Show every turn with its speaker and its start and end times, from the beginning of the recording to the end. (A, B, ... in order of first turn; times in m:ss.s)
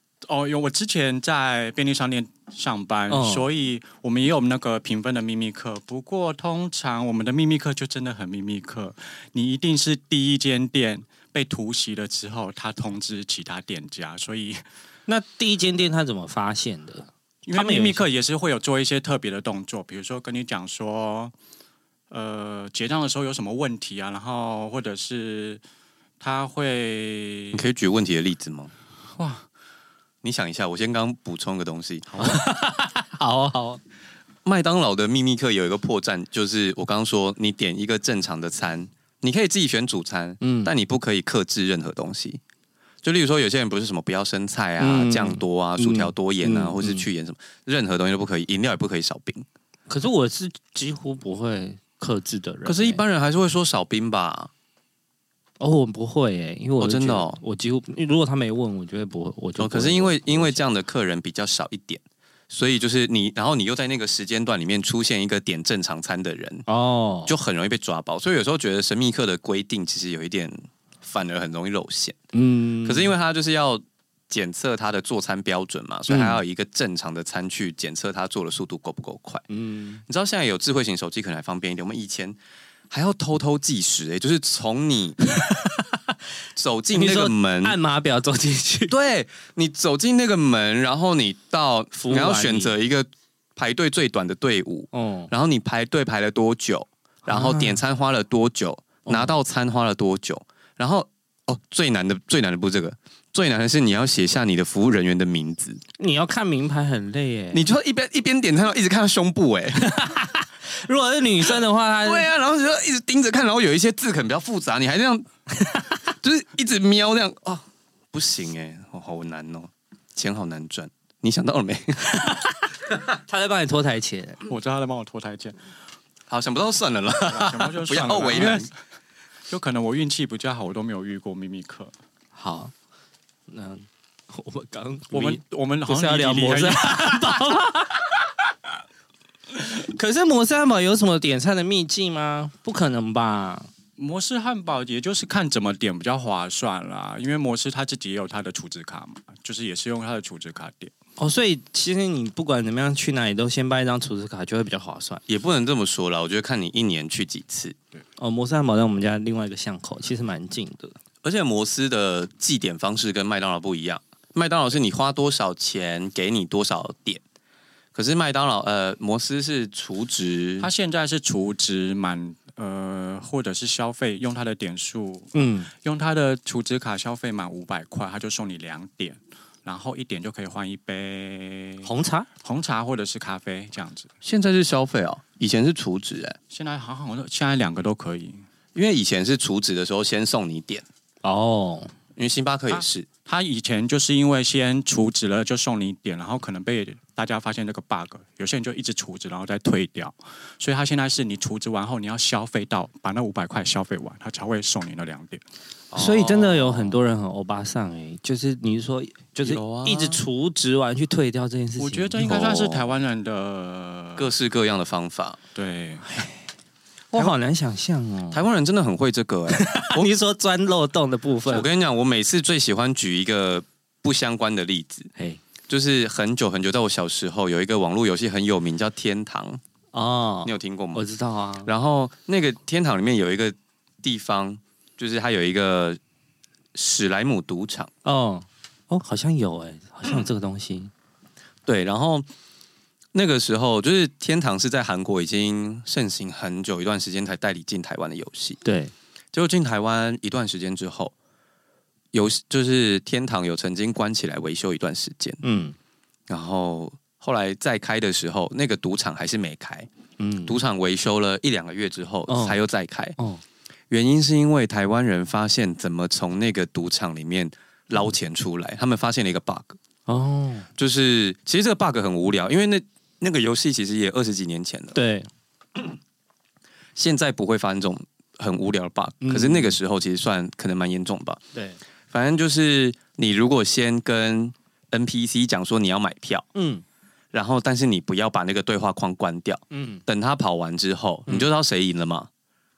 0:00.2-0:14.6 A
0:03.1-0:03.5 B
0:15.1-0:18.0 B
0:17.4-0:21.3 A
0:22.1-0:25.6 A
0:26.2-0:27.6 A
0:27.5-0:28.7 C
0:29.1-0:29.4 A
0:30.2-0:32.2 C
0:32.2-0:33.8 B
0:34.4-0:42.4 C
0:40.4-0:40.7 B
0:43.0-0:49.4 C
0:44.8-0:47.0 B
0:49.9-0:53.0 B
0:52.6-0:54.5 C
0:55.6-1:00.6 B
0:56.8-0:57.4 C
0:59.6-1:06.7 C
1:06.7-1:07.3 B
1:07.2-1:12.2 C
1:12.3-1:13.1 B
1:12.8-1:19.4 C
1:16.1-1:16.4 B
1:19.5-1:20.0 B
1:20.1-1:22.4 C
1:22.9-1:25.2 C
1:25.4-1:26.0 B
1:26.6-1:27.8 C
1:26.9-1:28.9 B
1:28.9-1:45.8 C
1:32.0-1:32.7 B
1:34.9-1:35.3 B
1:37.2-1:37.8 B
1:39.0-1:39.3 B
1:46.0-1:47.6 B
1:47.5-1:49.9 C
1:49.8-1:52.3 B
1:52.0-1:55.3 C
1:56.0-2:02.1 C
2:02.1-2:02.6 B
2:03.1-2:04.4 B
2:04.5-2:05.6 A
2:06.3-2:08.7 C
2:07.2-2:08.7 A
2:09.5-2:11.9 A
2:12.3-2:12.7 B
2:13.5-2:18.2 B
2:15.1-2:17.2 A
2:19.6-2:23.7 B
2:24.0-2:30.9 A
2:31.2-2:35.2 B
2:35.3-2:37.8 C
2:38.2-2:41.0 B
2:41.2-2:47.2 C
2:47.9-2:50.7 C
2:50.6-3:01.9 A
2:55.3-2:55.7 B
3:01.8-3:02.3 B
3:02.4-3:04.1 A
3:04.2-3:06.4 C
3:06.5-3:08.4 A
3:08.7-3:10.8 C
3:11.2-3:11.9 B
3:12.2-3:13.1 C
3:12.7-3:25.4 A
3:25.9-3:27.0 C
3:26.0-3:32.2 B
3:29.4-3:30.2 C
3:31.8-3:34.3 A
3:32.2-3:32.8 C
3:34.2-3:35.4 C
3:35.5-3:36.0 A
3:36.1-3:36.4 B
3:37.1-3:38.4 B
3:38.3-3:40.1 C
3:39.5-3:41.7 B
3:41.5-3:45.1 C
3:45.7-3:49.6 C
3:49.9-3:51.7 B
3:50.4-3:51.0 C
3:51.6-3:56.0 C
3:56.7-3:57.9 C
3:58.0-4:00.9 B
4:01.6-4:02.3 C
4:03.1-4:08.6 C
4:08.6-4:08.9 B
4:09.3-4:11.1 C
4:12.1-4:15.4 C
4:15.4-4:15.8 B
4:16.3-4:19.9 C
4:20.2-4:20.6 B
4:20.4-4:23.2 C
4:22.3-4:22.6 B
4:23.2-4:23.4 B
4:23.9-4:29.8 C
4:30.1-4:30.7 B
4:30.8-4:35.0 C
4:34.9-4:35.3 B
4:37.0-4:41.4 C
4:39.2-4:39.8 B
4:41.5-4:41.8 B
4:42.1-4:46.5 C
4:46.5-4:46.8 B
4:47.3-4:52.3 C
4:49.7-4:50.0 B